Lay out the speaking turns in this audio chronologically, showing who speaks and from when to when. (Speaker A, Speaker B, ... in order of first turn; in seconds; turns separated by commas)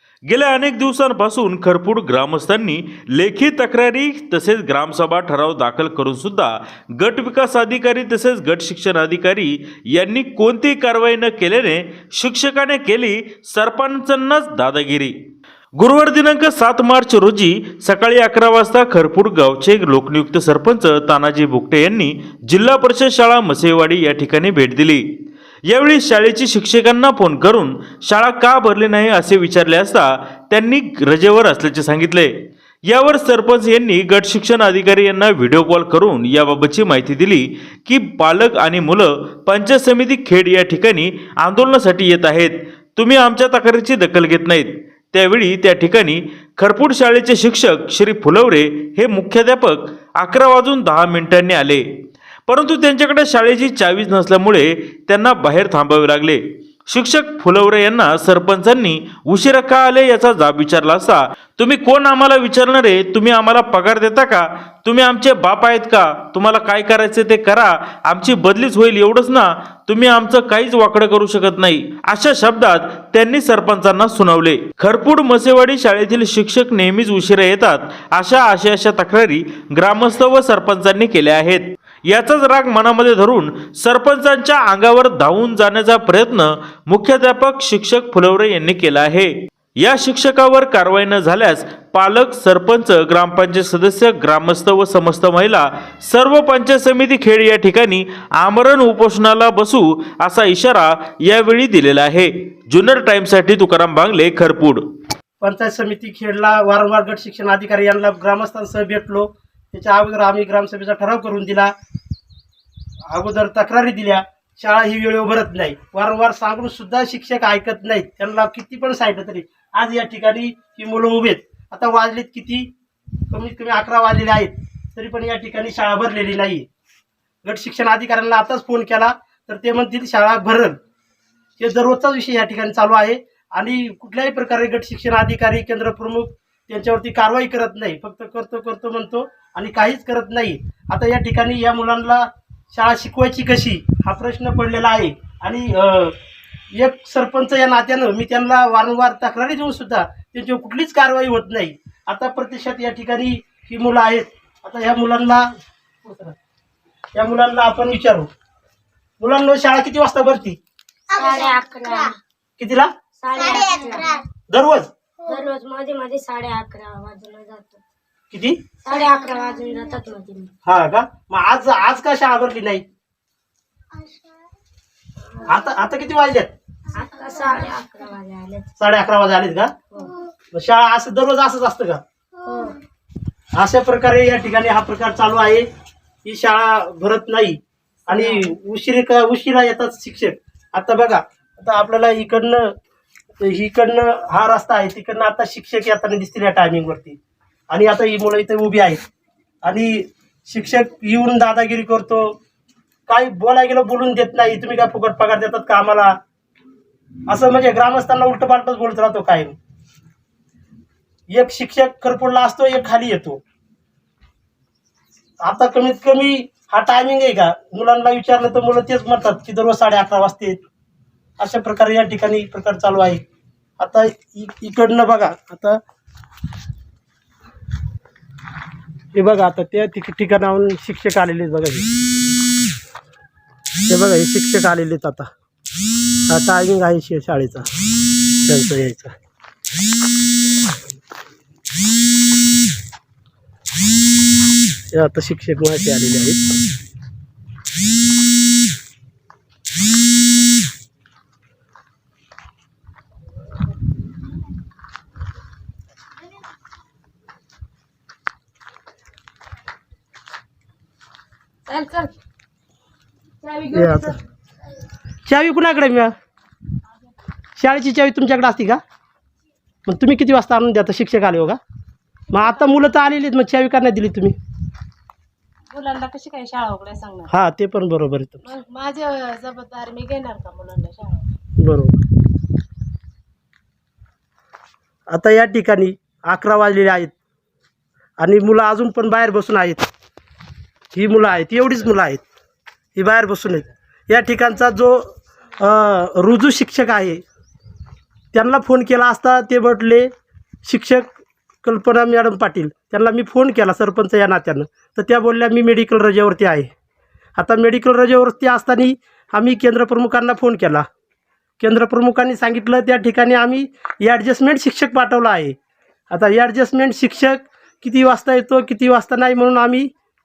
Speaker A: 0.3-15.1, Speaker A: 15.8-25.0, Speaker A: 25.7-32.3, Speaker A: 32.8-51.8, Speaker A: 52.5-104.8, Speaker B: 105.4-111.7, Speaker B: 113.1-122.7, Speaker B: 123.3-126.7, Speaker B: 127.4-130.8, Speaker B: 131.6-146.2, Speaker B: 146.7-155.5, Speaker B: 156.0-156.4, Speaker B: 157.2-158.3, Speaker B: 159.2-160.6, Speaker C: 161.1-162.2, Speaker B: 162.6-162.9, Speaker C: 163.2-164.2, Speaker B: 164.5-164.9, Speaker C: 165.2-167.8, Speaker B: 168.3-168.6, Speaker C: 168.8-170.5, Speaker B: 170.7-172.8, Speaker C: 175.3-175.7, Speaker B: 175.5-176.5, Speaker C: 177.0-178.7, Speaker B: 178.8-179.7, Speaker B: 180.5-182.0, Speaker C: 182.4-182.8, Speaker B: 183.6-185.7, Speaker B: 186.2-192.7, Speaker C: 188.1-188.5, Speaker B: 193.4-197.2, Speaker B: 197.7-199.0, Speaker B: 199.6-202.3, Speaker B: 203.1-206.1, Speaker B: 207.3-209.6, Speaker B: 211.3-213.4, Speaker B: 215.4-220.6, Speaker B: 221.4-223.2, Speaker B: 223.8-225.8, Speaker B: 229.1-231.9, Speaker B: 233.9-235.3, Speaker B: 236.3-237.7, Speaker B: 238.4-239.1, Speaker B: 244.9-246.6, Speaker D: 261.7-262.1, Speaker D: 263.4-264.1, Speaker B: 263.7-264.2, Speaker B: 265.2-266.1, Speaker B: 267.6-268.8, Speaker B: 269.9-271.6, Speaker B: 272.3-274.4, Speaker D: 272.4-272.8, Speaker D: 275.7-277.3, Speaker B: 277.3-278.4, Speaker D: 278.4-281.2, Speaker B: 281.6-281.9, Speaker B: 285.1-287.1, Speaker B: 288.2-289.9, Speaker B: 290.9-292.2, Speaker B: 292.9-297.2, Speaker B: 298.3-300.1, Speaker B: 300.7-301.1, Speaker B: 301.6-306.7, Speaker B: 307.4-310.9, Speaker B: 311.6-315.6, Speaker B: 316.1-319.9